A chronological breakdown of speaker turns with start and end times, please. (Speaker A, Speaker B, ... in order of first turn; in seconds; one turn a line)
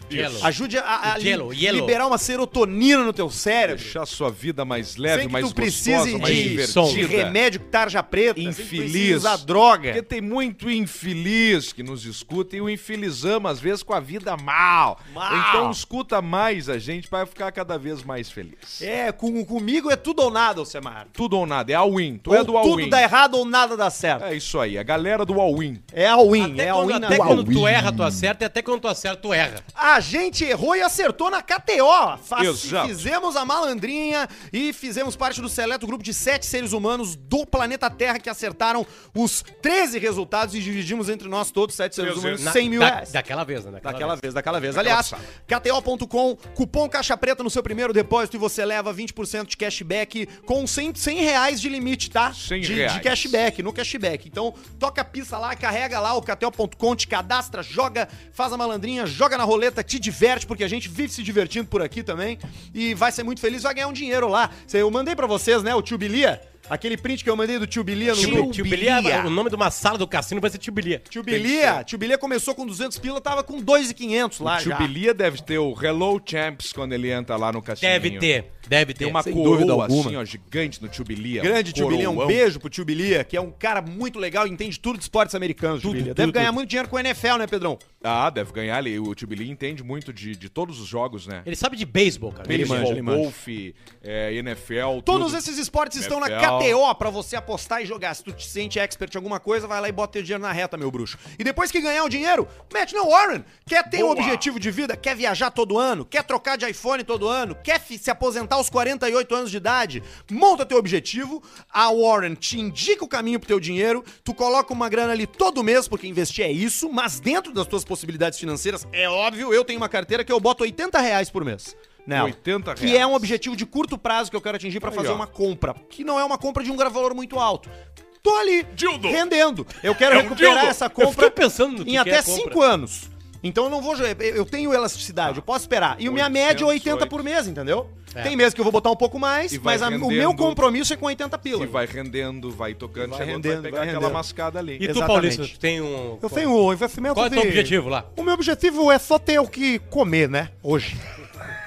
Speaker A: 0.1-0.5
Speaker B: 0.1-0.5
Speaker C: 0.4-4.0
Speaker B: 1.0-2.0
Speaker A: 3.6-7.4
Speaker C: 5.1-10.0
Speaker B: 6.2-7.2
Speaker A: 8.3-18.9
Speaker C: 15.1-15.8
Speaker C: 18.8-21.1
Speaker A: 21.1-23.1
Speaker C: 22.2-24.3
Speaker A: 24.2-25.8
Speaker C: 25.9-27.6
Speaker B: 26.4-29.6
Speaker A: 27.1-28.3
Speaker C: 29.7-43.1
Speaker A: 32.4-33.0
Speaker A: 42.0-42.5
Speaker B: 42.4-44.2
Speaker C: 43.8-69.3
Speaker A: 44.7-45.2
Speaker A: 52.3-53.4
Speaker A: 68.1-68.5
Speaker B: 68.1-71.1
Speaker C: 71.1-74.9
Speaker A: 71.3-71.8
Speaker A: 74.4-78.3
Speaker B: 77.8-79.5
Speaker A: 79.0-82.4
Speaker C: 79.3-80.2
Speaker C: 81.4-87.8
Speaker B: 85.8-86.5
Speaker A: 88.0-91.5
Speaker B: 91.5-92.9
Speaker C: 92.4-93.3
Speaker A: 92.4-95.4
Speaker C: 95.0-127.7
Speaker A: 96.0-96.8
Speaker A: 103.9-104.5
Speaker A: 122.1-123.3
Speaker A: 124.8-125.2
Speaker C: 128.2-141.8
Speaker A: 128.7-129.2
Speaker A: 130.0-130.8
Speaker B: 131.0-132.6
Speaker A: 136.0-137.2
Speaker A: 139.5-140.6
Speaker A: 141.5-144.8
Speaker C: 143.0-144.2
Speaker B: 144.8-146.5
Speaker C: 144.8-145.6
Speaker C: 146.2-151.0
Speaker B: 147.1-148.1